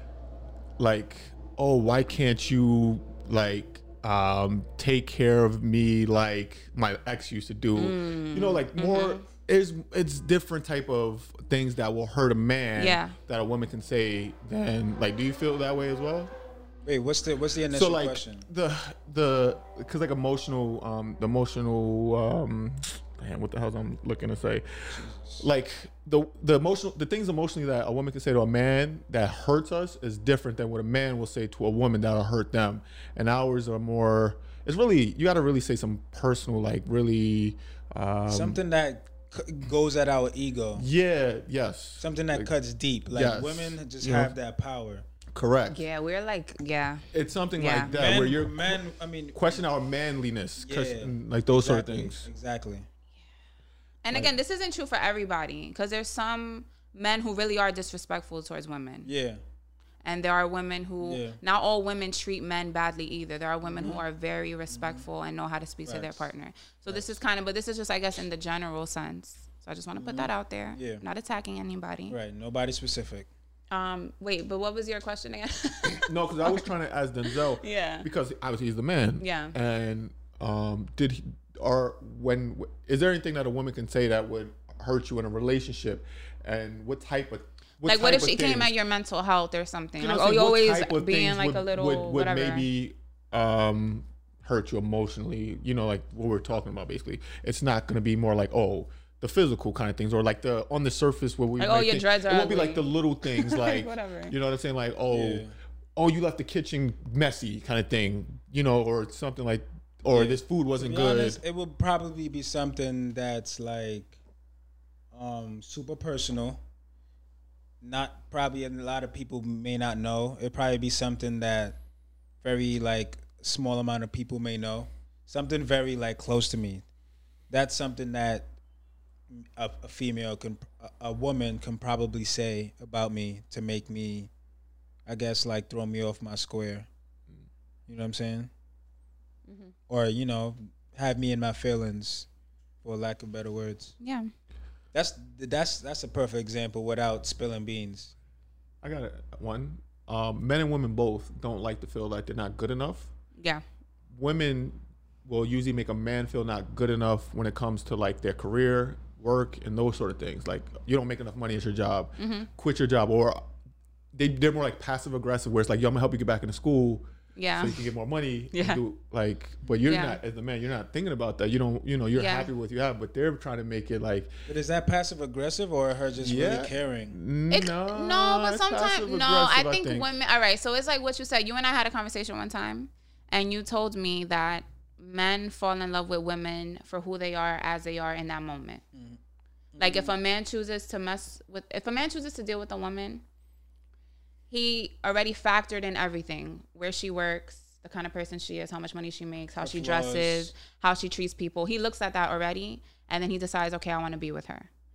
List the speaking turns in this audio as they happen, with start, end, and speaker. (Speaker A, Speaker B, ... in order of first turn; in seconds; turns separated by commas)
Speaker A: 0.8-16.3, Speaker B: 7.8-9.2, Speaker B: 12.8-13.2, Speaker C: 16.9-18.5, Speaker A: 17.7-38.6, Speaker C: 24.9-25.5, Speaker C: 38.3-40.9, Speaker A: 40.8-42.5, Speaker C: 42.0-45.0, Speaker A: 43.1-44.4, Speaker A: 45.4-45.9, Speaker B: 45.7-47.0, Speaker A: 47.1-48.8, Speaker B: 47.6-47.9, Speaker C: 47.8-49.6, Speaker A: 49.3-52.3, Speaker C: 50.6-52.9, Speaker B: 54.0-59.1, Speaker C: 59.1-59.4, Speaker B: 60.0-72.2, Speaker C: 61.0-61.4, Speaker C: 63.7-64.0, Speaker C: 64.7-65.0, Speaker C: 65.9-66.3, Speaker C: 66.9-67.2, Speaker C: 70.0-71.0, Speaker C: 72.1-73.3, Speaker B: 73.7-76.7, Speaker A: 75.9-88.7, Speaker B: 77.6-78.1, Speaker B: 79.2-79.5, Speaker B: 87.9-92.7, Speaker A: 90.0-111.4, Speaker B: 101.6-104.3, Speaker C: 105.1-105.5, Speaker C: 110.1-114.2, Speaker C: 115.1-116.6, Speaker C: 117.8-121.8, Speaker C: 122.4-126.8, Speaker C: 127.5-128.5, Speaker C: 129.3-134.3, Speaker C: 135.1-136.9, Speaker C: 137.9-138.5, Speaker B: 139.5-139.7, Speaker C: 139.9-142.3, Speaker C: 142.8-143.9, Speaker B: 144.0-144.3, Speaker C: 144.9-148.1, Speaker A: 148.8-153.1, Speaker B: 153.4-153.6, Speaker A: 154.1-163.4, Speaker B: 162.2-162.5, Speaker A: 164.1-174.3, Speaker B: 167.4-167.8, Speaker B: 168.5-168.8, Speaker B: 169.9-170.2, Speaker B: 172.2-172.5, Speaker C: 174.5-177.2, Speaker A: 176.2-180.2, Speaker B: 177.5-188.8, Speaker C: 189.8-190.1, Speaker B: 189.8-193.2, Speaker B: 194.5-204.7, Speaker C: 199.6-200.5